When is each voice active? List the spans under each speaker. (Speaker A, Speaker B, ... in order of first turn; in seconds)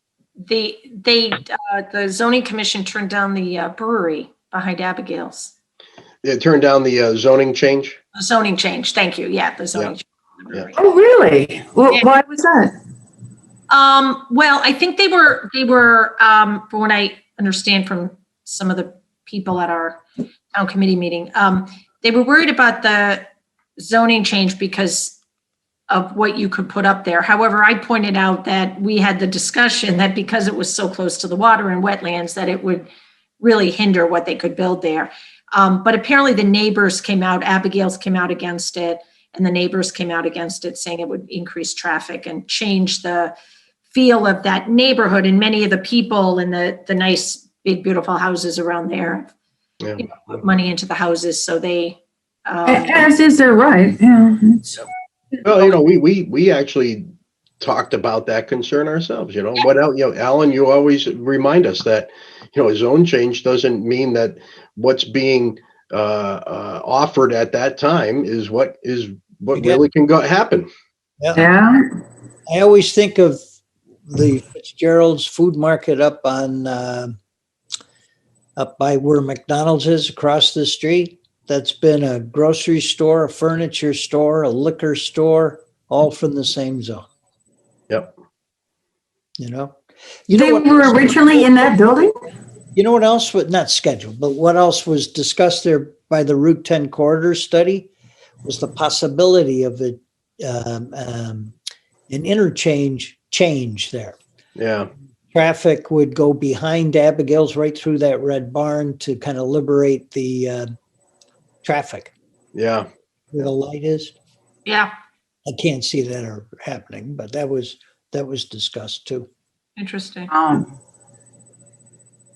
Speaker A: 0.4-5.5, 8.1-10.8, 13.7-20.0, 20.5-25.2, 25.9-32.9, 33.4-43.3, 43.9-49.3, 50.0-53.1, 114.7-114.9, 119.8-120.3
Speaker B: 6.2-8.0, 49.8-50.1, 55.4-57.0, 57.6-70.7, 104.5-104.9, 112.5-112.8
Speaker C: 10.8-12.7, 52.6-54.7, 71.3-71.8, 90.3-92.1, 120.3-120.7
Speaker D: 69.5-69.8, 71.2-71.5, 72.5-73.4, 74.1-77.1, 78.5-87.0, 89.4-89.8, 90.3-91.7, 92.7-97.9, 98.4-101.5, 102.1-104.2, 105.3-110.7, 111.6-112.1, 113.3-114.1, 115.5-119.3